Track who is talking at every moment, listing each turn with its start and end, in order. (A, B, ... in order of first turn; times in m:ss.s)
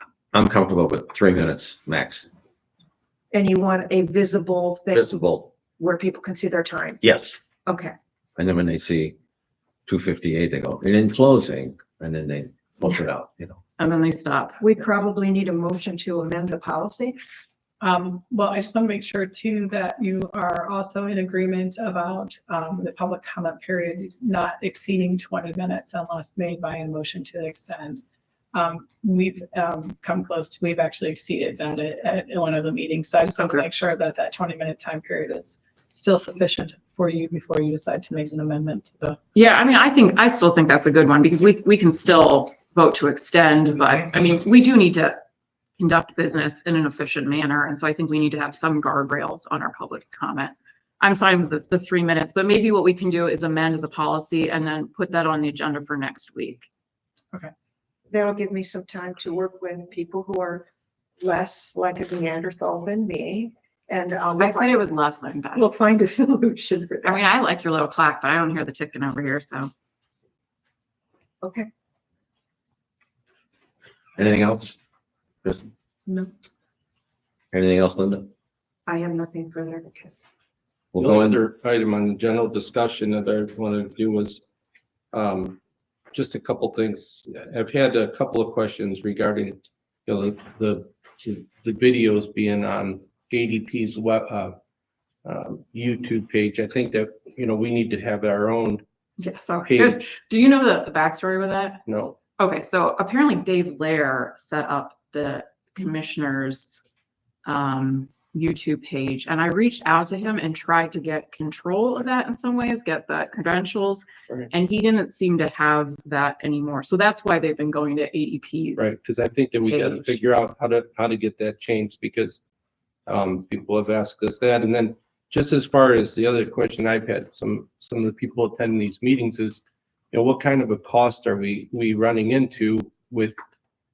0:00.3-0:02.3 A
0:03.3-0:05.1 B
0:04.9-0:05.5 A
0:05.8-0:07.0 B
0:07.0-0:07.4 A
0:07.7-0:08.0 B
0:08.4-0:09.2 A
0:09.9-0:13.6 A
0:13.8-0:14.6 C
0:14.6-0:17.2 B
0:17.8-0:28.0 D
0:28.5-0:39.2 D
0:33.4-0:33.6 C
0:39.4-0:45.2 C
0:45.8-0:56.7 C
0:58.1-1:00.7 B
1:01.2-1:04.8 B
1:04.4-1:05.7 C
1:05.6-1:07.2 B
1:07.0-1:09.7 C
1:11.4-1:11.7 B
1:14.2-1:14.8 A
1:15.4-1:15.7 A
1:17.5-1:18.3 A
1:18.9-1:20.1 B
1:20.9-1:21.4 A
1:21.0-1:24.4 E
1:25.1-1:25.6 E
1:26.1-1:34.6 E
1:35.2-1:38.8 E
1:39.2-1:41.8 C
1:39.7-1:40.0 E
1:41.9-1:42.2 E
1:42.4-1:46.8 C
1:47.4-1:58.9 C
1:58.8-2:02.4 E
1:59.7-2:00.2 C
2:03.1-2:13.4 E